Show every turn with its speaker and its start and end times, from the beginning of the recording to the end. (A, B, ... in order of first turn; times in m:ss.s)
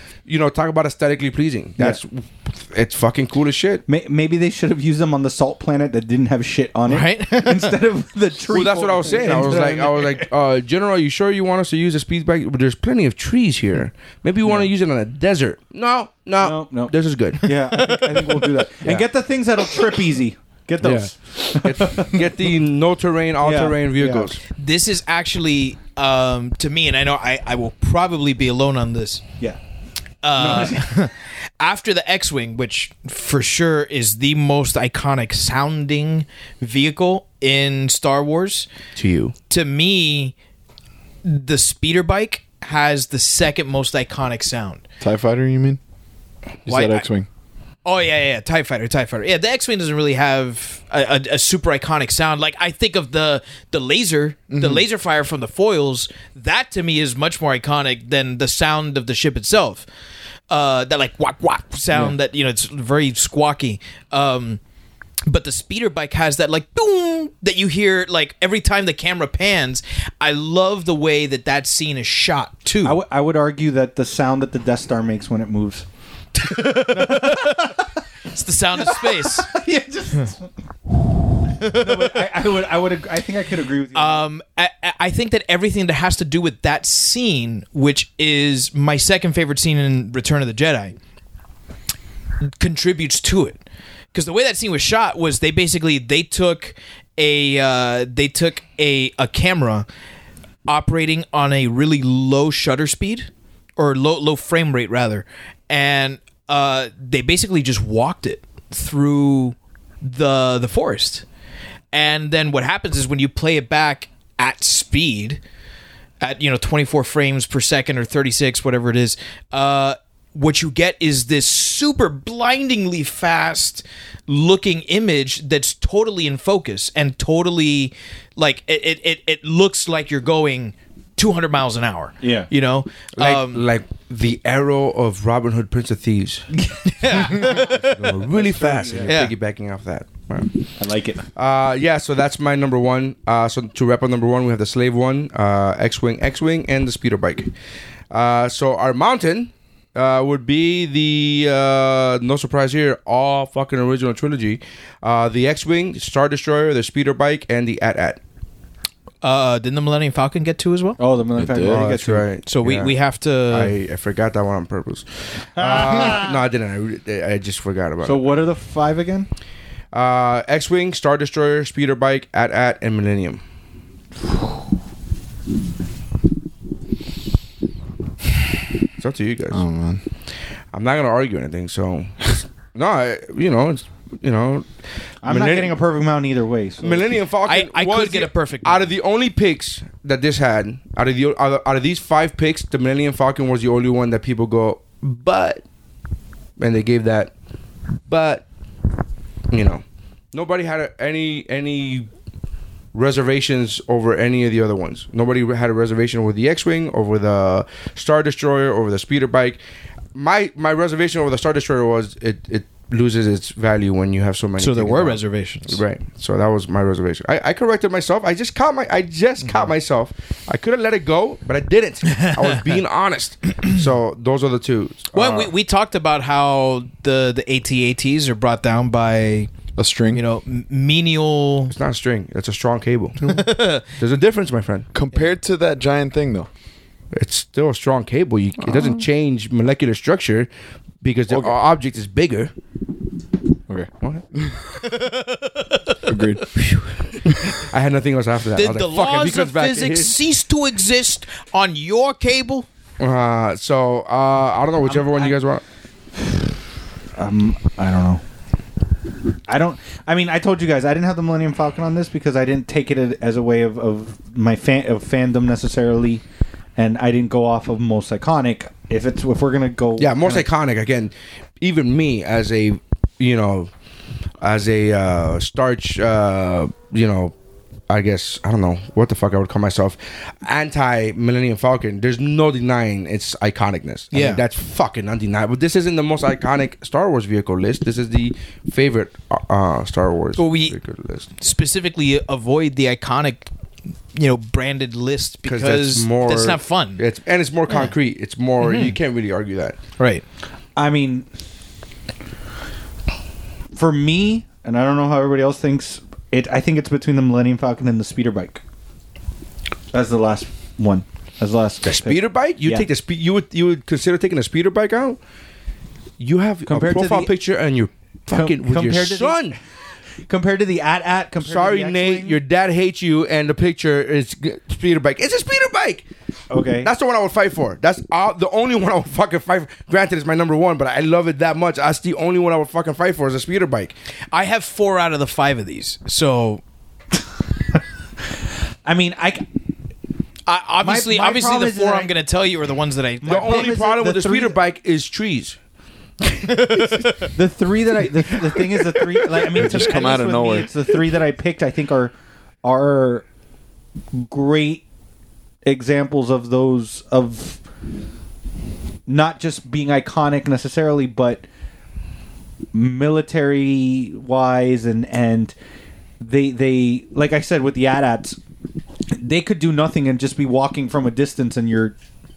0:00.3-0:03.8 A
0:03.9-0:10.3 B
0:06.9-0:07.8 C
0:08.5-0:19.0 A
0:14.4-0:14.7 B
0:16.4-0:22.2 B
0:20.8-0:24.4 A
0:23.4-0:24.4 B
0:24.6-0:29.2 C
0:30.2-0:38.7 C
0:30.4-0:30.9 B
0:39.0-0:39.4 A
0:39.5-0:40.3 C
0:41.2-0:44.8 C
0:45.0-0:45.8 D
0:46.6-0:47.3 D
0:46.7-0:47.1 C
0:47.8-0:59.9 C
0:54.5-0:54.8 D
1:00.5-1:04.6 C
1:05.3-1:13.0 C
1:12.8-1:15.9 B
1:16.4-1:19.5 C
1:16.8-1:17.8 B
1:18.8-1:20.5 B
1:21.6-1:24.2 B
1:21.6-1:22.1 C
1:23.9-1:31.0 C
1:32.5-1:33.6 C
1:34.1-1:39.9 C
1:40.7-1:51.2 C
1:51.9-1:55.4 C
1:56.2-2:13.6 C
2:12.2-2:12.5 B
2:13.2-2:16.5 A
2:16.7-2:18.1 C
2:17.3-2:20.6 A
2:18.3-2:19.1 B
2:19.1-2:19.3 C
2:20.8-2:21.3 B
2:21.4-2:27.5 A
2:28.1-2:38.2 A
2:39.2-2:41.0 C
2:41.0-2:42.3 B
2:41.4-2:41.8 D
2:41.7-2:43.0 A
2:42.5-2:43.7 C
2:43.5-2:48.2 A
2:45.6-2:46.4 B
2:48.0-2:49.3 B
2:49.9-2:53.4 A
2:59.0-2:59.6 A
2:59.5-3:00.0 D
3:00.7-3:04.7 A
3:05.2-3:07.2 B
3:05.2-3:05.7 A
3:06.8-3:15.6 A
3:07.4-3:08.8 C
3:16.6-3:17.3 A
3:18.1-3:18.5 A
3:19.5-3:22.1 A
3:22.9-3:29.6 A
3:30.2-3:45.5 A
3:34.6-3:35.8 C
3:42.1-3:42.5 C
3:45.1-3:49.5 C
3:49.8-3:50.2 D
3:50.1-3:51.7 C
3:51.7-3:54.9 A
3:53.2-3:53.8 C
3:54.9-3:56.5 D
3:57.1-4:00.5 A
4:01.0-4:02.5 A
4:01.3-4:01.6 D
4:03.7-4:04.6 D
4:04.8-4:06.0 C
4:06.0-4:06.6 D
4:06.5-4:06.9 C
4:07.7-4:10.1 A
4:08.6-4:12.7 C
4:13.0-4:15.6 A
4:14.8-4:15.4 B
4:17.2-4:18.2 B
4:19.5-4:26.2 B
4:26.8-4:30.5 B
4:30.0-4:33.7 A
4:34.4-4:37.4 A
4:37.9-4:51.3 A
4:44.1-4:44.4 C
4:50.4-4:50.8 C
4:51.4-4:53.5 C
4:54.1-4:57.0 C
4:55.4-4:59.8 A
4:57.7-4:58.0 C
4:58.6-4:59.0 C
5:00.8-5:01.3 B
5:03.7-5:08.6 B
5:09.9-5:12.9 B
5:11.8-5:15.2 A
5:16.2-5:19.6 A
5:16.6-5:17.3 B
5:18.3-5:19.5 B
5:20.3-5:22.4 B
5:21.4-5:26.1 A
5:26.5-5:26.9 B
5:26.8-5:33.9 A
5:34.3-5:36.6 C
5:38.9-5:39.4 B
5:40.5-5:43.8 C
5:40.8-5:42.1 B
5:43.2-5:44.6 B
5:43.3-5:45.6 A
5:46.5-5:47.1 C
5:46.5-5:46.8 A
5:47.3-5:53.2 B
5:49.5-5:50.7 D
5:54.3-5:54.8 B
5:55.6-5:57.6 B
5:59.1-6:01.4 B
6:02.7-6:05.6 B
6:06.2-6:08.4 B
6:09.1-6:12.0 B